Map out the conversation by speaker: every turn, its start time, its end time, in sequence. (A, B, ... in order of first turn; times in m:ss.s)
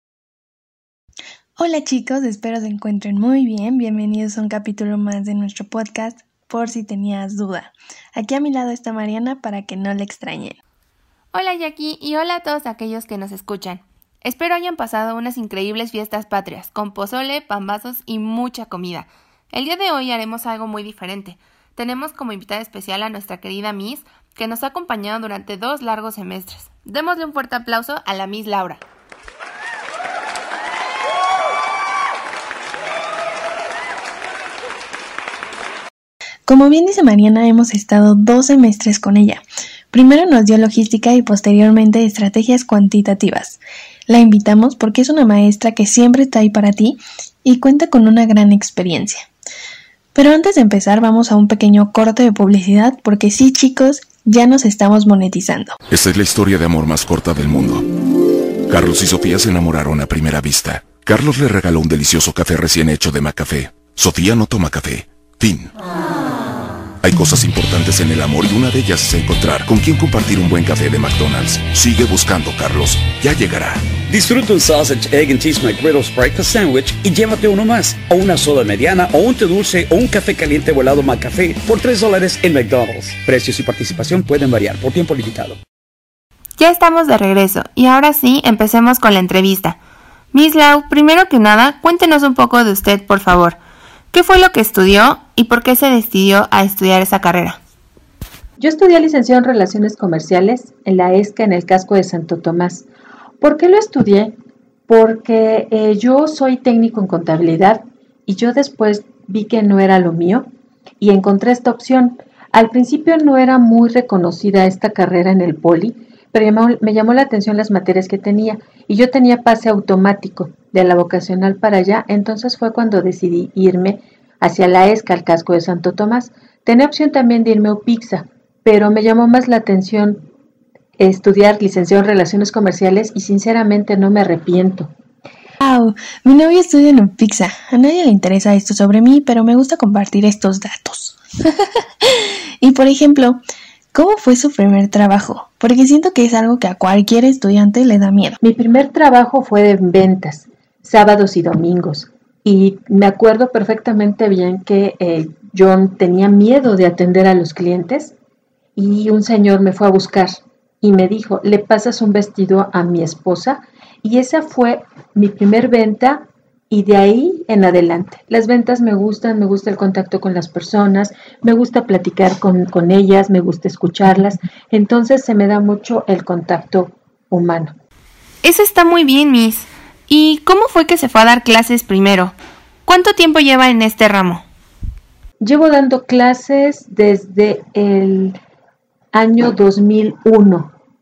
0:01.6-0:10.6 A
0:11.3-0:28.8 B
0:36.4-0:49.3 A
0:50.1-0:55.8 A
0:55.9-0:57.8 C
0:58.7-1:05.7 C
1:07.0-1:13.8 C
1:14.1-1:25.6 D
1:26.6-1:29.8 B
1:30.3-1:33.6 B
1:34.1-1:37.6 B
1:38.6-1:42.9 E
1:43.4-1:44.3 E
1:44.9-1:50.5 E
1:51.0-2:10.2 E
2:11.0-2:14.9 E
2:15.6-2:23.4 A
2:23.9-2:28.4 A
2:28.4-2:38.1 E
2:38.8-2:57.8 E
2:58.4-3:02.3 B
3:02.8-3:04.4 B
3:05.4-3:08.4 E
3:09.1-3:10.7 E